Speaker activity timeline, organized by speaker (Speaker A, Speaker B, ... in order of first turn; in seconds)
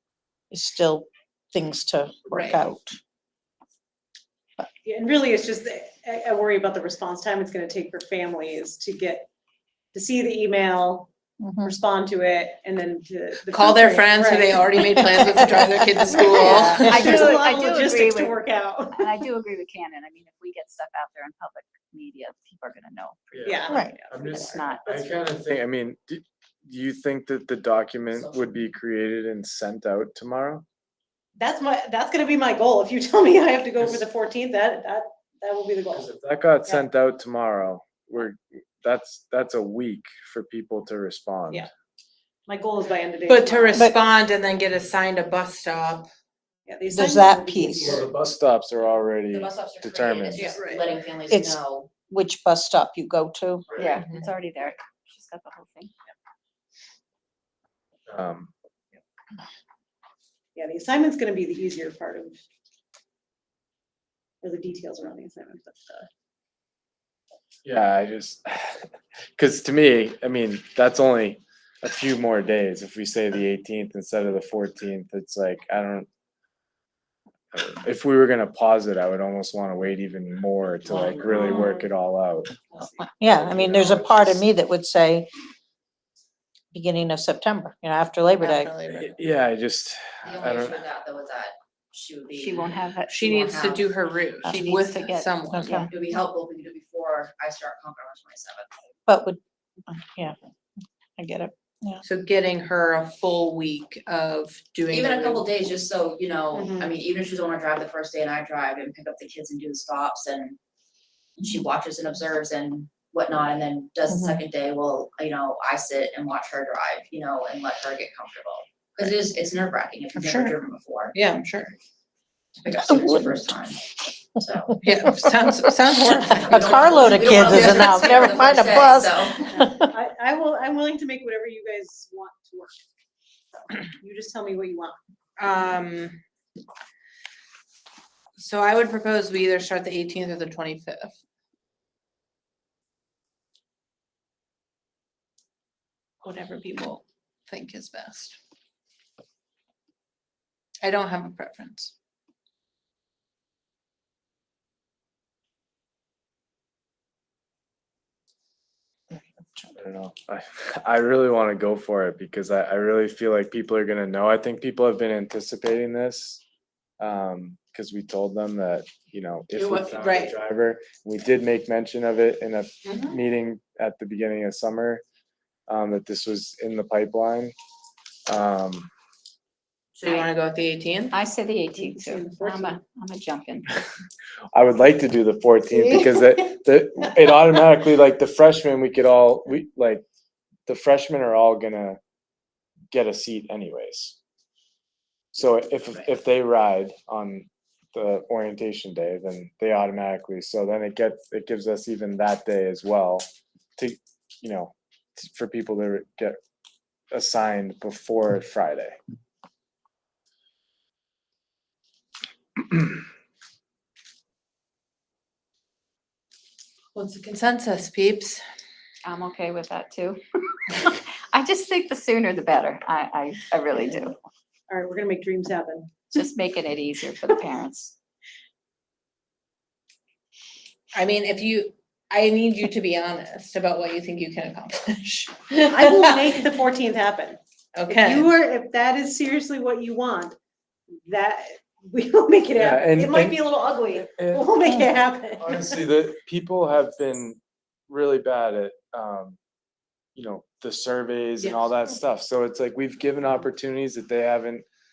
Speaker A: 0.5-3.0, 11.4-11.8, 14.9-17.3, 23.7-24.0, 46.9-48.0, 51.3-53.7, 83.2-85.3, 86.7-88.7, 95.5-95.9, 99.1-100.3, 101.2-102.0, 123.0-123.3, 125.3-125.5, 126.5-129.9
Speaker B: 2.3-2.6, 13.4-17.1, 43.3-46.1, 50.3-51.0, 53.8-54.2, 88.4-89.2, 93.1-95.8, 102.0-105.5, 120.1-120.5, 121.1-121.7, 124.8-127.9, 135.4-136.2, 138.4-141.1, 146.2-148.3, 150.8-151.9, 169.5-170.3, 172.8-173.2, 179.9-181.2, 216.9-218.4, 230.9-236.3, 237.7-238.3
Speaker C: 4.8-9.3, 9.9-11.1, 11.6-19.2, 23.4-25.1, 31.4-36.0, 42.5-44.0, 46.6-48.0, 60.5-62.4, 64.4-66.1, 80.9-81.8, 82.7-83.1, 106.5-106.9, 129.9-132.8, 134.0-134.9, 181.8-182.8, 224.7-226.1, 235.7-240.3, 241.1-245.8, 251.4-251.7
Speaker D: 16.6-24.9, 53.8-55.9, 92.4-93.2, 94.4-95.9, 180.0-180.3, 181.1-183.8, 219.0-224.2, 226.1-227.9
Speaker E: 23.3-30.6, 35.9-41.7, 47.8-50.6, 58.1-58.5, 67.6-68.8, 69.3-76.1, 77.5-82.6, 83.2-84.4, 88.9-90.8, 159.7-166.4, 167.0-175.0, 175.7-177.5, 178.3-178.9, 184.5-190.0, 190.7-192.0, 192.9-194.2, 195.3-203.2, 203.8-206.4, 207.1-209.0, 242.6-249.4, 250.1-254.6
Speaker F: 28.1-28.5, 49.3-51.9, 53.7-54.1, 90.2-93.9, 95.9-98.7, 104.9-110.6, 111.4-121.2, 122.6-124.8, 126.1-129.7